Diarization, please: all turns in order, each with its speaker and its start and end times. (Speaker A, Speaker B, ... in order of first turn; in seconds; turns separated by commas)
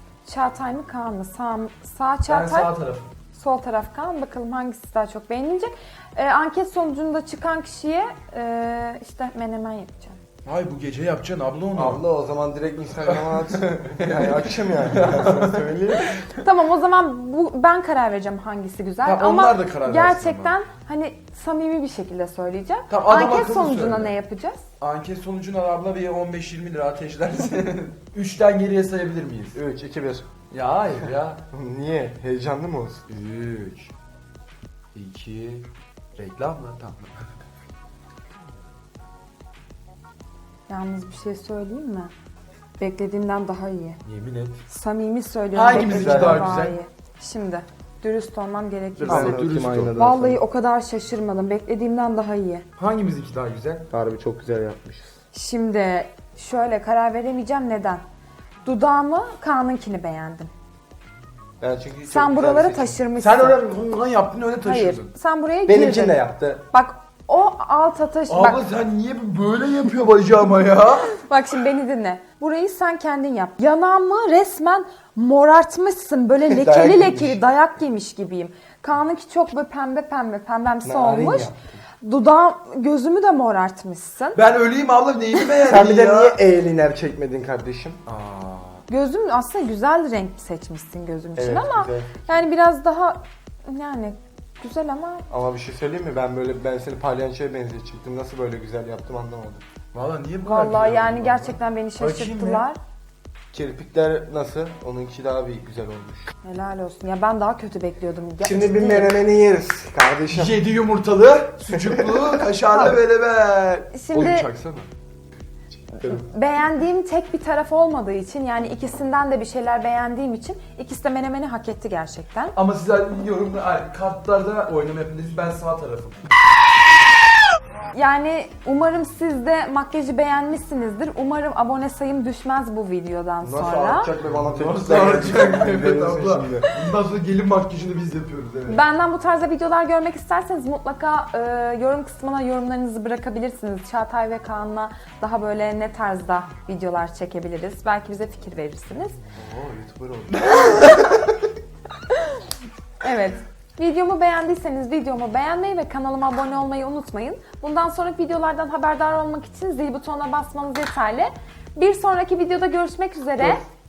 Speaker A: 0.2-2.7, Speaker B: 2.3-3.1, Speaker A: 3.3-10.2, Speaker B: 10.5-12.0, Speaker C: 11.8-16.1, Speaker B: 13.1-16.4, Speaker A: 16.4-24.6, Speaker B: 19.0-20.6, Speaker B: 22.9-24.2, Speaker B: 24.8-29.6, Speaker C: 29.5-30.3, Speaker B: 30.5-31.4, Speaker C: 31.5-33.0, Speaker B: 33.1-33.9, Speaker B: 34.9-37.2, Speaker A: 40.7-42.1, Speaker A: 42.8-44.0, Speaker B: 44.0-44.6, Speaker A: 44.7-52.7, Speaker B: 45.5-46.8, Speaker C: 45.7-46.6, Speaker B: 49.0-50.0, Speaker C: 49.0-50.4, Speaker B: 52.8-53.9, Speaker C: 53.9-55.2, Speaker A: 55.3-58.0, Speaker A: 58.6-60.5, Speaker C: 61.6-63.0, Speaker A: 62.1-63.6, Speaker B: 63.2-65.1, Speaker A: 64.6-68.6, Speaker C: 65.7-66.7, Speaker B: 68.3-71.2, Speaker A: 71.1-81.5, Speaker C: 76.5-77.4, Speaker C: 80.8-81.6, Speaker A: 82.0-84.4, Speaker B: 84.3-86.4, Speaker C: 85.6-88.0, Speaker B: 88.1-88.8, Speaker A: 88.9-95.3, Speaker C: 91.4-92.5, Speaker C: 95.3-99.6, Speaker B: 99.9-102.7, Speaker A: 100.4-102.8, Speaker C: 103.5-106.3, Speaker A: 106.4-109.1, Speaker C: 108.4-110.6, Speaker B: 110.3-114.9, Speaker C: 111.7-112.3, Speaker A: 113.9-114.5, Speaker A: 116.0-122.6, Speaker B: 122.5-126.2, Speaker A: 127.9-134.1, Speaker C: 133.4-136.7, Speaker B: 134.2-138.8, Speaker A: 138.7-149.2, Speaker C: 149.3-150.8, Speaker B: 150.3-151.5, Speaker A: 152.1-152.5, Speaker A: 153.0-163.6